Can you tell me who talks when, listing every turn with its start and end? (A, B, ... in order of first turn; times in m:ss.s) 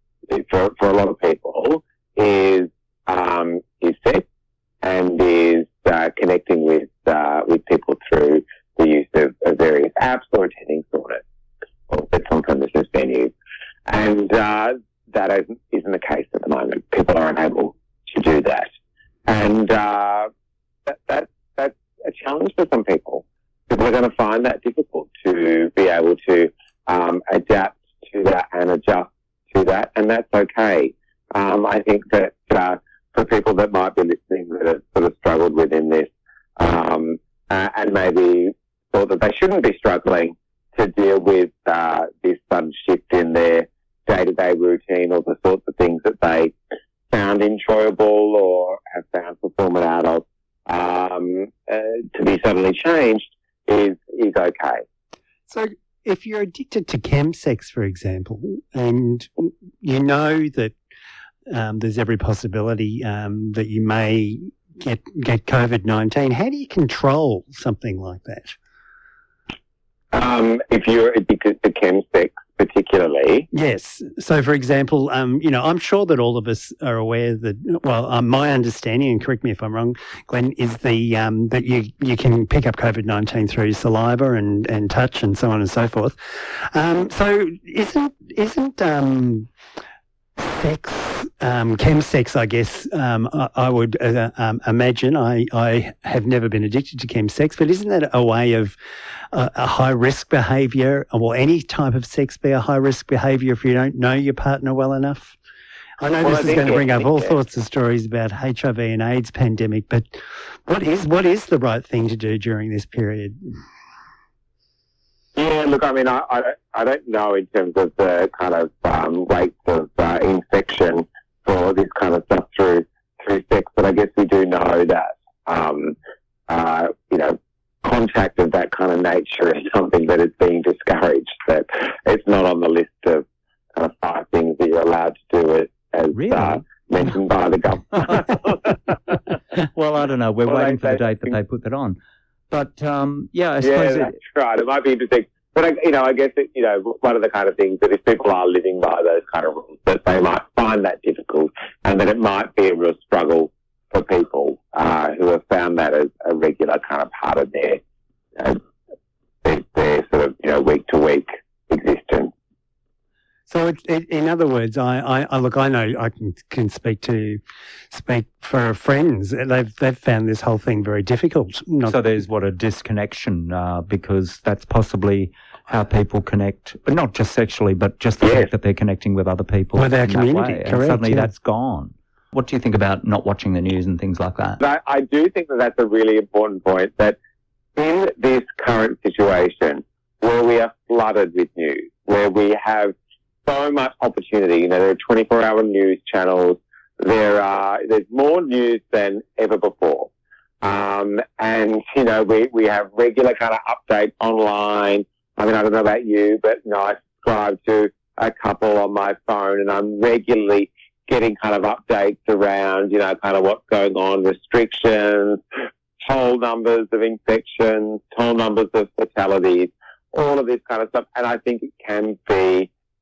0:00.3-0:04.2 A
0:04.8-0:11.2 A
0:11.9-0:13.3 A
0:13.9-0:18.7 A
0:19.3-0:20.3 A
0:20.9-0:46.5 A
0:47.1-0:54.8 A
0:55.5-1:00.8 B
1:01.5-1:08.6 B
1:10.1-1:13.5 A
1:13.5-1:29.5 B
1:30.4-1:38.8 B
1:39.3-1:45.4 B
1:46.0-1:53.5 B
1:46.2-1:47.4 A
1:55.4-2:06.0 A
2:06.5-2:13.2 A
2:13.8-2:18.6 A
2:16.2-2:16.6 C
2:19.6-2:22.0 C
2:20.5-2:21.0 A
2:22.5-2:24.2 C
2:23.6-2:37.8 A
2:39.4-2:42.3 A
2:43.5-2:52.0 B
2:51.9-3:04.6 C
2:58.2-2:58.5 A
2:59.8-3:01.3 B
3:04.6-3:07.2 A
3:07.8-3:12.9 A
3:13.4-3:20.1 A
3:20.6-3:35.4 A
3:36.0-3:42.7 A